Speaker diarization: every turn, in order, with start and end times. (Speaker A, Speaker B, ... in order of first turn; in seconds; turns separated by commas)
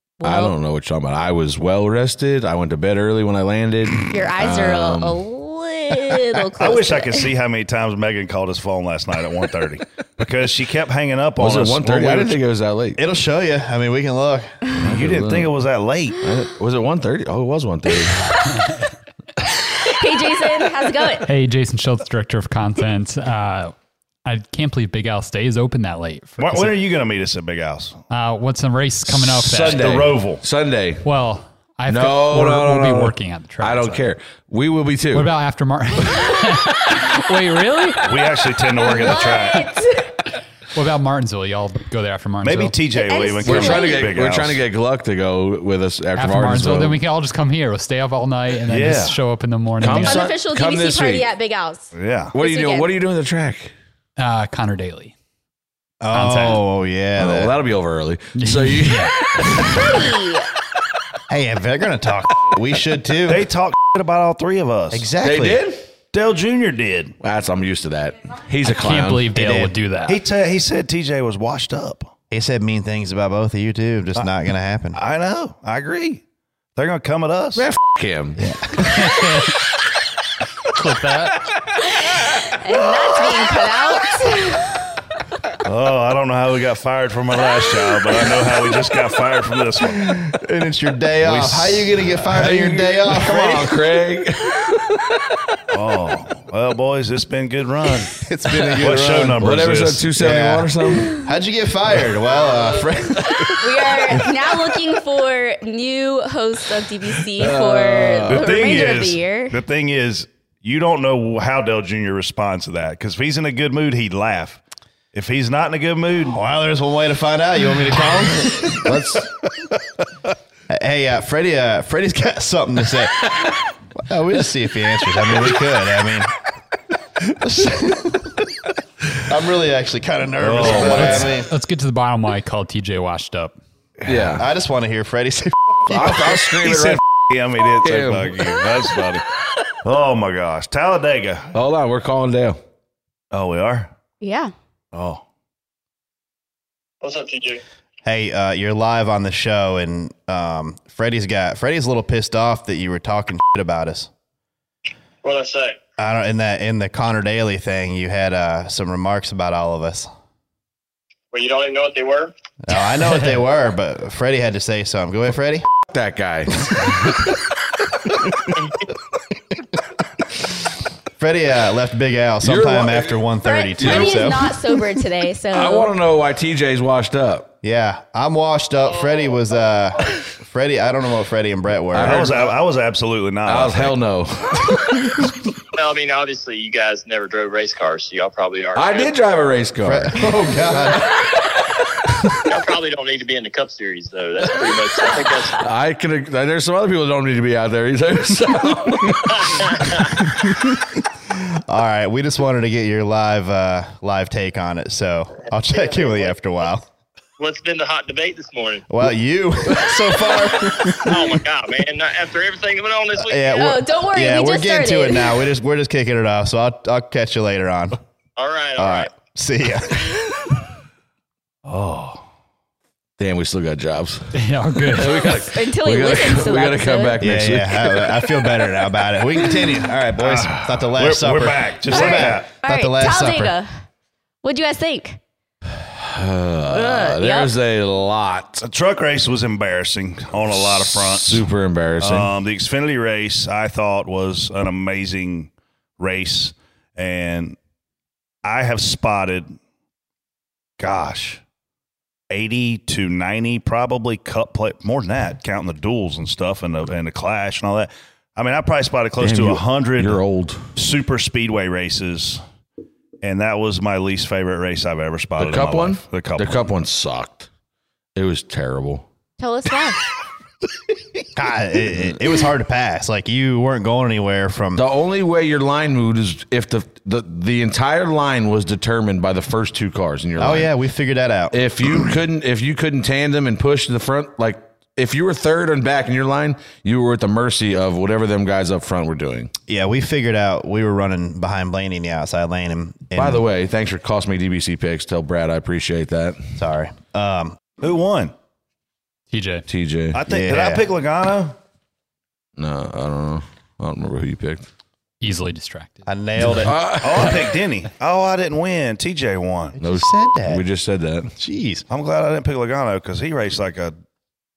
Speaker A: 0.2-0.5, Speaker B: 0.2-5.2, Speaker A: 4.1-7.3, Speaker C: 6.6-12.4, Speaker B: 11.4-13.0, Speaker D: 13.0-14.6, Speaker C: 14.8-16.2, Speaker B: 14.8-15.5, Speaker B: 16.2-18.4, Speaker A: 19.9-21.3, Speaker E: 21.2-23.7, Speaker E: 24.2-26.7, Speaker C: 26.4-28.0, Speaker E: 28.1-30.0, Speaker B: 29.1-31.0, Speaker C: 29.4-30.4, Speaker E: 31.0-34.1, Speaker B: 31.9-35.3, Speaker E: 35.1-39.4, Speaker C: 38.0-39.7, Speaker A: 38.8-40.1, Speaker E: 40.7-42.7, Speaker C: 42.4-44.6, Speaker A: 42.9-44.1, Speaker B: 43.4-47.0, Speaker E: 46.1-50.2, Speaker C: 48.7-49.1, Speaker B: 49.8-51.2, Speaker A: 50.0-52.9, Speaker C: 51.9-52.3, Speaker B: 52.3-53.7, Speaker E: 54.2-55.1, Speaker D: 56.0-57.5, Speaker E: 56.1-56.6, Speaker B: 57.2-60.1, Speaker E: 58.3-59.1, Speaker A: 59.8-60.5, Speaker D: 61.3-63.4, Speaker C: 63.3-65.1, Speaker D: 64.9-65.6, Speaker B: 65.2-65.8, Speaker C: 66.1-67.1, Speaker B: 67.2-69.5, Speaker E: 68.6-70.2, Speaker D: 69.3-69.7, Speaker C: 70.1-72.1, Speaker D: 72.3-75.0, Speaker C: 74.9-76.2, Speaker C: 76.8-77.6, Speaker B: 77.5-79.2, Speaker E: 79.0-79.5, Speaker E: 80.7-81.4, Speaker A: 82.2-84.8, Speaker C: 85.6-90.3, Speaker D: 90.3-93.7, Speaker C: 91.2-91.8, Speaker B: 92.3-95.6, Speaker C: 95.7-98.1, Speaker D: 98.2-99.5, Speaker B: 98.5-101.2, Speaker C: 98.8-100.0, Speaker D: 100.2-103.5, Speaker B: 103.2-104.3, Speaker A: 103.6-109.5, Speaker B: 107.2-108.9, Speaker C: 108.3-114.6, Speaker C: 115.1-116.4, Speaker D: 116.2-119.0, Speaker B: 118.5-119.4, Speaker D: 120.7-123.1, Speaker D: 124.0-126.3, Speaker D: 127.4-128.5, Speaker D: 129.2-131.5, Speaker C: 130.4-131.3, Speaker E: 130.7-133.6, Speaker B: 134.0-134.5, Speaker D: 134.1-136.4, Speaker B: 135.9-137.0, Speaker C: 136.6-139.2, Speaker B: 137.8-138.7, Speaker C: 139.8-141.5, Speaker B: 141.5-142.6, Speaker C: 143.3-143.9, Speaker A: 144.2-144.5, Speaker C: 144.9-145.2, Speaker F: 147.0-147.6, Speaker D: 148.0-154.1, Speaker F: 155.2-155.8, Speaker D: 156.0-160.1, Speaker F: 161.3-162.3, Speaker D: 162.6-165.7, Speaker B: 165.8-168.6, Speaker D: 171.2-174.5, Speaker B: 172.4-173.2, Speaker A: 173.4-175.9, Speaker B: 173.8-174.5, Speaker B: 175.5-177.5, Speaker D: 177.6-182.3, Speaker B: 181.9-182.5, Speaker C: 182.0-184.0, Speaker B: 183.4-185.2, Speaker F: 185.7-189.1, Speaker B: 188.7-190.3, Speaker D: 189.8-191.1, Speaker F: 192.5-195.5, Speaker B: 194.4-200.5, Speaker F: 199.4-200.1, Speaker D: 201.5-206.8, Speaker F: 207.4-208.8, Speaker D: 208.9-211.3, Speaker F: 210.9-213.6, Speaker D: 213.2-218.0, Speaker A: 213.5-215.4, Speaker F: 218.4-219.1, Speaker D: 218.8-220.1, Speaker C: 221.6-222.2, Speaker B: 223.2-228.2, Speaker E: 224.3-225.3, Speaker A: 225.2-227.2, Speaker D: 227.2-233.5, Speaker C: 230.2-232.5, Speaker A: 231.9-233.7, Speaker A: 234.4-235.2, Speaker B: 235.7-238.6, Speaker A: 236.7-237.5, Speaker C: 238.6-241.4, Speaker B: 240.4-242.3, Speaker C: 242.0-247.6, Speaker C: 248.4-249.5, Speaker C: 250.8-251.4, Speaker C: 252.3-260.2, Speaker B: 259.2-260.7, Speaker C: 260.8-262.4, Speaker C: 263.2-266.6, Speaker B: 265.4-267.5, Speaker B: 268.1-269.0, Speaker A: 269.4-270.0, Speaker D: 271.4-274.8, Speaker B: 274.8-280.7, Speaker D: 280.4-282.1, Speaker B: 281.5-289.5, Speaker D: 289.7-293.4, Speaker B: 293.1-296.5, Speaker D: 296.6-297.6, Speaker C: 297.8-298.3, Speaker E: 299.3-299.6, Speaker B: 299.7-300.2, Speaker C: 300.1-301.6, Speaker D: 300.3-300.8, Speaker B: 302.6-304.7, Speaker E: 305.2-306.0, Speaker D: 306.1-306.8, Speaker B: 306.6-307.6, Speaker C: 307.0-309.7, Speaker D: 309.8-310.6, Speaker B: 309.8-311.3, Speaker D: 311.3-311.8, Speaker C: 311.9-313.9